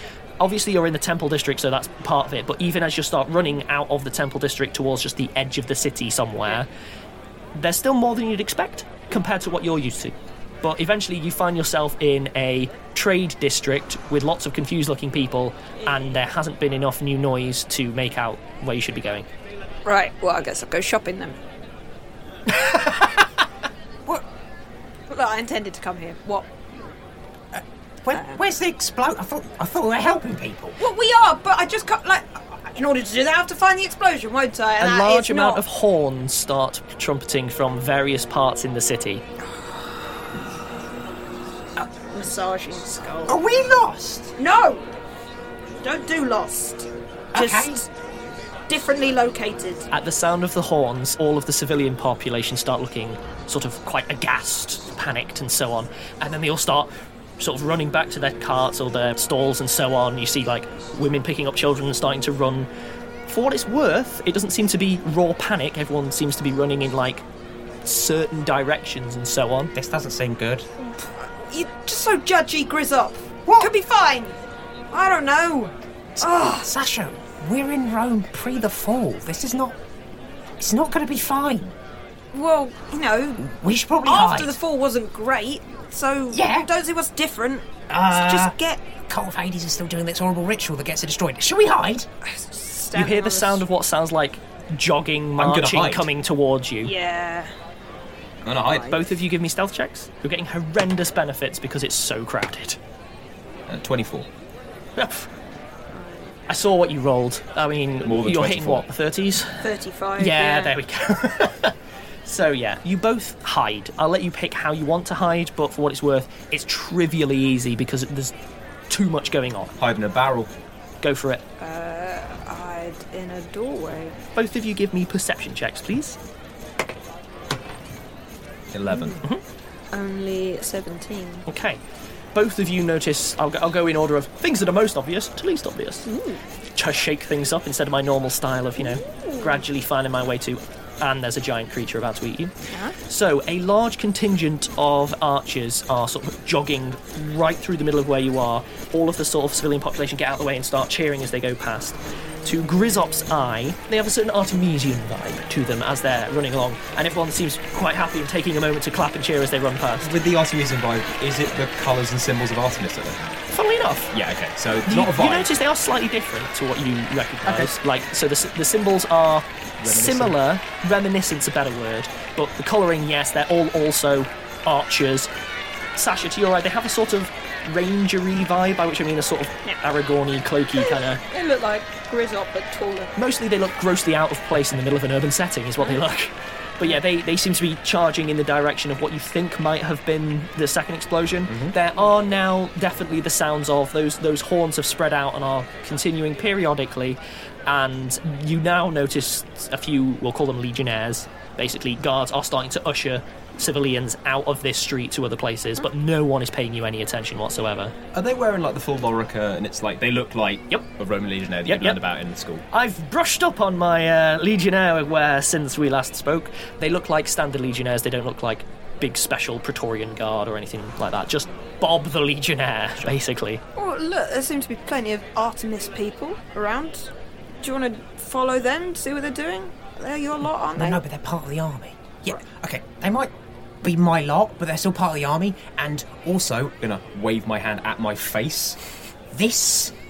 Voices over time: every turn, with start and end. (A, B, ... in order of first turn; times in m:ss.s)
0:00.4-0:06.7 A
0:07.5-0:19.3 A
0:15.8-0:16.2 B
0:19.8-0:21.4 B
0:22.6-0:23.0 B
0:25.1-0:26.5 B
0:27.5-0:30.8 C
0:28.1-0:28.4 B
0:30.8-0:35.6 B
0:34.8-0:39.2 A
0:39.6-0:39.8 B
0:41.8-0:43.4 B
0:43.2-0:44.3 C
0:44.4-0:44.9 B
0:45.8-0:47.9 B
0:47.3-0:47.8 C
0:48.7-0:49.9 B
0:49.9-1:02.7 A
1:03.3-1:07.2 A
1:07.8-1:09.7 A
1:09.7-1:10.7 C
1:10.8-1:14.4 B
1:14.9-1:16.7 B
1:16.2-1:19.8 C
1:20.6-1:21.7 C
1:22.3-1:23.5 B
1:23.4-1:24.6 C
1:24.0-1:28.9 B
1:26.3-1:26.7 C
1:27.9-1:28.6 C
1:29.1-1:32.1 C
1:32.2-1:33.6 B
1:32.9-1:36.9 A
1:35.4-1:36.1 D
1:36.8-1:37.5 B
1:38.4-1:38.9 D
1:38.5-1:39.1 B
1:38.9-1:42.8 A
1:43.7-1:44.3 D
1:45.0-1:45.3 A
1:45.9-1:46.3 B
1:46.5-1:49.6 A
1:48.0-1:48.8 D
1:49.6-1:50.7 B
1:50.2-1:51.7 A
1:52.2-1:58.3 A
1:58.9-1:59.7 A
1:59.8-2:00.5 D
2:01.0-2:01.4 A
2:01.6-2:04.2 B
2:04.3-2:06.2 A
2:08.7-2:09.2 D
2:08.9-2:09.2 B
2:09.9-2:11.4 B
2:11.4-2:11.8 A
2:12.3-2:16.1 A
2:16.1-2:16.4 B
2:16.7-2:22.5 A
2:18.8-2:19.6 B
2:22.7-2:23.0 B
2:23.1-2:40.1 A
2:40.0-2:43.2 D
2:43.5-2:44.1 A
2:44.1-2:45.5 D
2:44.8-2:55.3 A
2:47.4-2:47.7 D
2:49.8-2:50.3 D
2:56.0-3:01.2 A
3:00.8-3:03.1 B
3:03.2-3:27.9 A
3:11.5-3:11.7 D
3:28.1-3:32.6 D
3:31.6-3:32.0 A
3:32.7-3:43.6 A
3:43.7-3:51.0 B
3:50.7-3:56.8 C
3:56.8-3:58.8 D
3:59.3-3:59.9 C